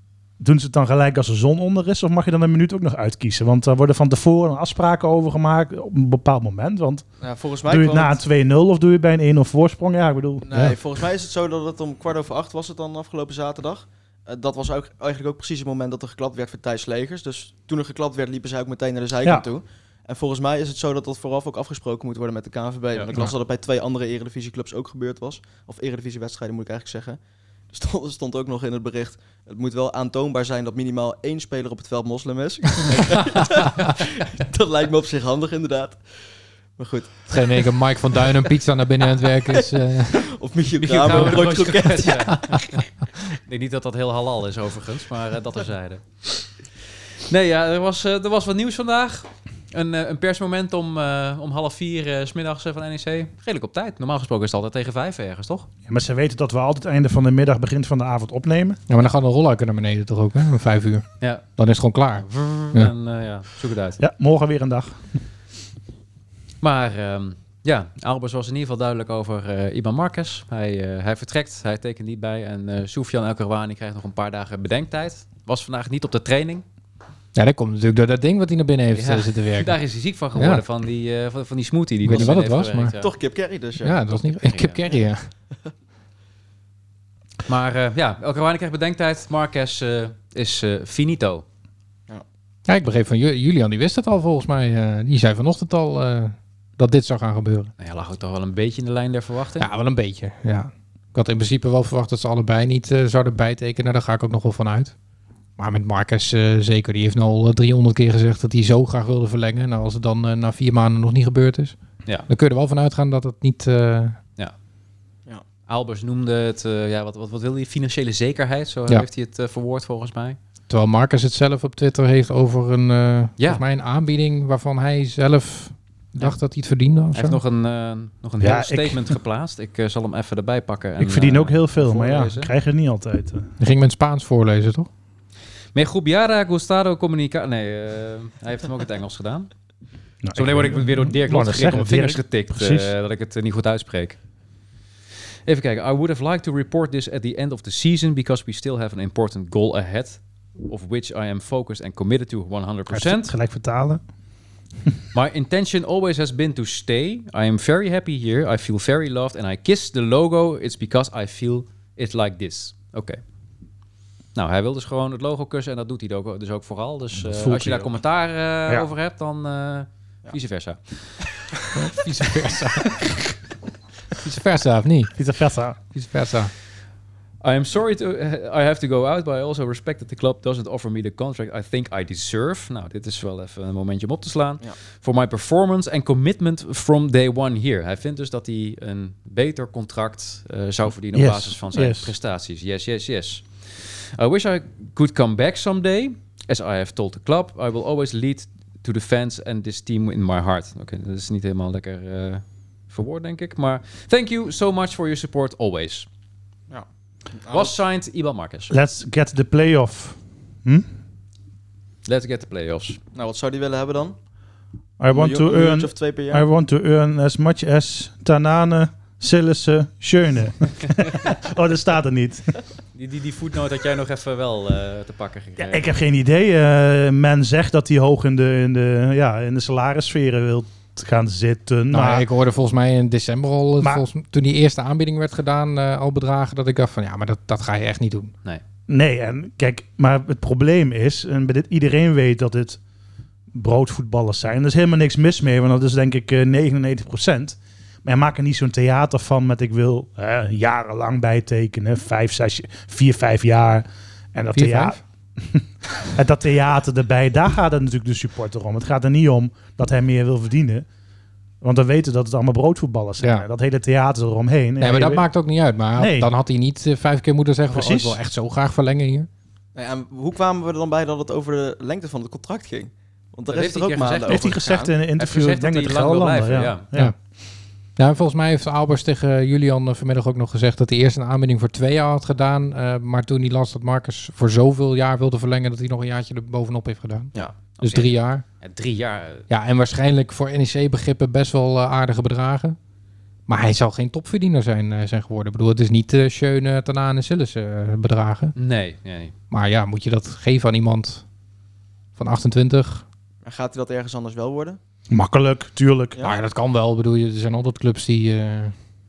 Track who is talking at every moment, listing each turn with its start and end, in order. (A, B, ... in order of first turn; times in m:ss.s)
0:00.4-0:07.0 A
0:07.2-0:08.2 B
0:07.6-0:10.7 A
0:10.4-0:27.2 B
0:27.7-0:36.0 B
0:36.8-0:37.3 B
0:37.3-0:40.3 C
0:39.4-0:42.4 B
0:40.8-0:46.5 D
0:41.1-0:41.4 C
0:47.3-0:55.7 D
0:55.9-0:58.8 A
0:58.9-1:02.9 C
1:02.2-1:04.0 D
1:04.0-1:05.0 A
1:06.6-1:16.6 D
1:17.3-1:19.8 C
1:18.9-1:23.1 D
1:20.3-1:20.6 C
1:22.0-1:22.9 C
1:23.0-1:24.1 B
1:23.8-1:25.3 C
1:24.4-1:24.8 D
1:27.4-1:31.4 D
1:32.7-1:37.7 C
1:37.8-1:39.7 D
1:39.6-1:44.9 C
1:45.6-1:51.7 C
1:52.3-1:54.2 C
1:55.7-2:00.4 D
2:00.7-2:07.4 C
2:03.4-2:03.6 D
2:07.1-2:12.5 D
2:08.4-2:09.1 A
2:11.0-2:13.5 A
2:13.6-2:14.9 C
2:15.7-2:19.5 D
2:20.2-2:22.9 A
2:20.3-2:24.2 D
2:25.4-2:33.3 D
2:32.9-2:34.0 A
2:35.1-2:43.2 D
2:44.3-2:51.2 D
2:47.2-2:47.9 A
2:51.7-2:53.1 C
2:54.2-2:55.1 C
2:55.2-2:55.8 A
2:55.9-2:56.5 C
2:57.4-3:26.1 D
3:11.1-3:12.1 A
3:26.7-3:27.7 B
3:27.5-3:28.7 D
3:28.7-3:30.8 A
3:32.0-3:33.0 D
3:33.1-3:34.2 B
3:35.0-3:42.5 A
3:35.1-3:36.4 B
3:41.0-3:41.3 D
3:42.9-3:45.9 D
3:45.6-3:52.2 A
3:51.9-3:58.3 C
3:58.9-4:02.8 A
4:03.5-4:20.8 A
4:14.5-4:15.0 C
4:21.6-4:25.2 A
4:23.2-4:23.4 C
4:24.8-4:29.3 C
4:26.0-4:26.3 A
4:27.7-4:28.2 A
4:29.7-4:34.9 B
4:33.5-4:36.8 D
4:34.3-4:37.1 A
4:38.0-4:48.4 C
4:47.8-4:49.5 D
4:49.5-4:52.8 C
4:53.5-4:58.5 C
4:58.6-4:59.3 D
4:59.5-5:01.2 C
5:02.2-5:03.0 C
5:03.4-5:04.8 B
5:05.1-5:06.2 A
5:06.2-5:08.7 C